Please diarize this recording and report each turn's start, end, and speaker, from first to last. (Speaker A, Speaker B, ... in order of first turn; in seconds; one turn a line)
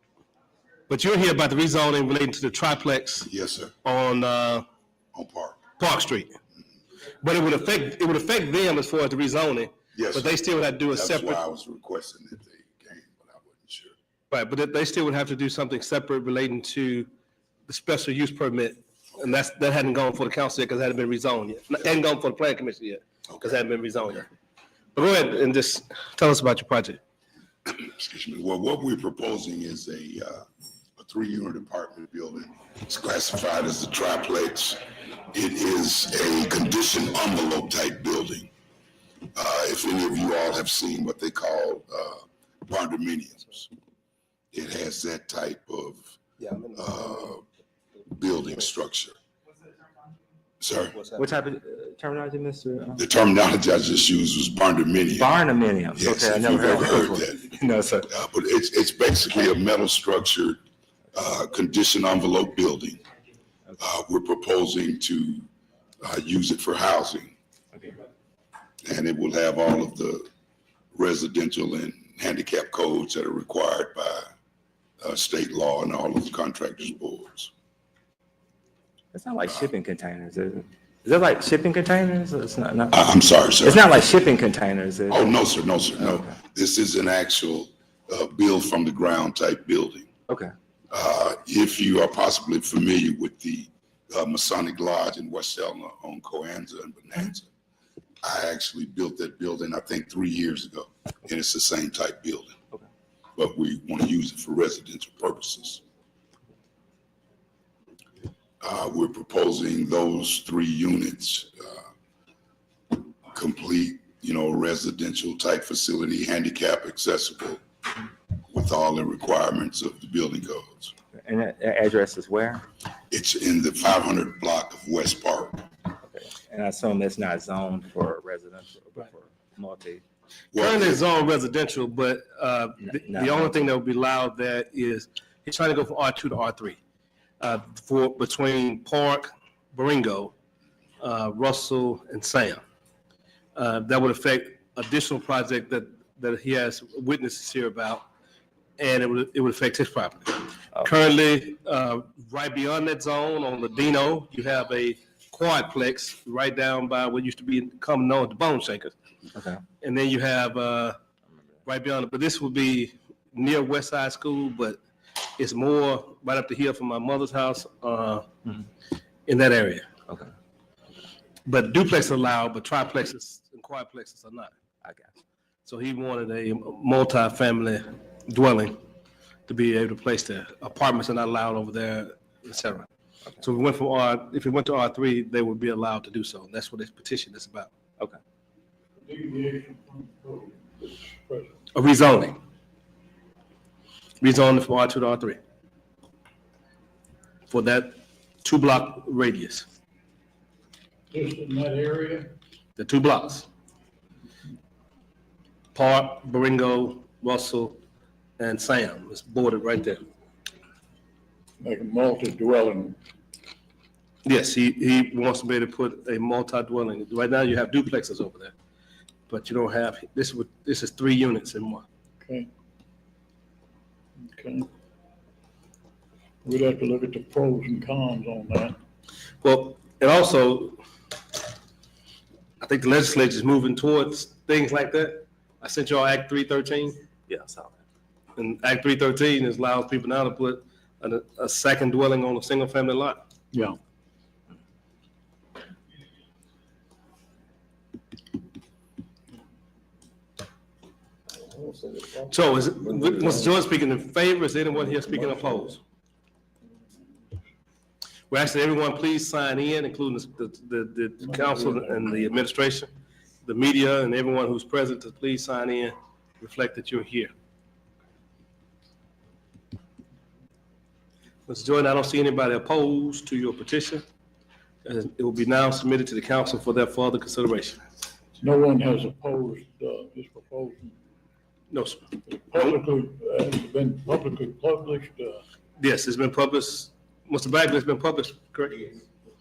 Speaker A: 0.9-3.3
Speaker B: 3.3-3.8
Speaker A: 3.8-4.7
Speaker B: 5.1-5.6
Speaker A: 5.8-6.4
Speaker A: 7.2-11.4
Speaker B: 9.9-13.9
Speaker A: 14.3-17.1
Speaker A: 17.7-24.3
Speaker A: 24.9-27.0
Speaker B: 27.7-30.4
Speaker B: 31.0-38.5
Speaker B: 39.3-43.7
Speaker B: 44.5-46.1
Speaker A: 46.4-47.4
Speaker B: 46.8-47.4
Speaker B: 48.1-49.2
Speaker B: 50.6-51.0
Speaker A: 50.9-51.3
Speaker C: 51.2-53.0
Speaker B: 53.0-55.3
Speaker C: 55.2-58.1
Speaker B: 56.0-57.5
Speaker B: 58.1-60.6
Speaker B: 61.1-63.0
Speaker B: 63.8-65.5
Speaker B: 66.0-67.3
Speaker B: 68.8-70.3
Speaker B: 70.9-74.3
Speaker B: 75.0-77.5
Speaker C: 79.1-85.3
Speaker B: 82.9-84.0
Speaker B: 85.1-90.1
Speaker C: 86.0-86.3
Speaker B: 90.9-97.5
Speaker B: 98.2-102.6
Speaker B: 103.4-105.8
Speaker B: 108.6-111.9
Speaker B: 112.9-117.6
Speaker B: 118.5-120.9
Speaker C: 121.2-122.6
Speaker B: 123.1-125.7
Speaker C: 126.0-130.0
Speaker B: 130.5-131.0
Speaker A: 130.6-136.8
Speaker C: 132.9-133.7
Speaker A: 137.4-140.3
Speaker A: 141.0-142.6
Speaker A: 143.6-148.1
Speaker A: 148.8-158.9
Speaker C: 159.3-159.6
Speaker A: 159.8-161.0
Speaker A: 161.7-164.8
Speaker A: 165.4-168.3
Speaker A: 169.2-169.9
Speaker A: 171.5-174.5
Speaker A: 175.7-178.8
Speaker A: 179.5-182.9
Speaker A: 183.4-187.7
Speaker D: 189.0-191.6
Speaker A: 191.7-192.4
Speaker A: 194.2-195.4
Speaker A: 197.5-199.7
Speaker D: 201.1-202.3
Speaker A: 202.8-203.5
Speaker A: 205.8-207.8
Speaker A: 208.4-210.1
Speaker D: 211.6-213.0
Speaker A: 214.2-218.5
Speaker A: 219.3-221.8
Speaker D: 222.2-222.5
Speaker D: 224.3-224.7
Speaker D: 226.4-228.8
Speaker A: 229.4-230.8
Speaker A: 232.6-237.0
Speaker C: 237.3-237.7
Speaker A: 238.4-243.2
Speaker D: 251.5-253.6
Speaker A: 252.3-255.8
Speaker D: 254.9-255.7
Speaker A: 258.3-262.9
Speaker D: 261.2-262.3
Speaker A: 263.4-267.3
Speaker A: 271.5-274.0
Speaker A: 274.9-277.8
Speaker D: 278.4-280.9
Speaker A: 281.7-282.8
Speaker D: 282.2-285.4
Speaker A: 285.8-289.0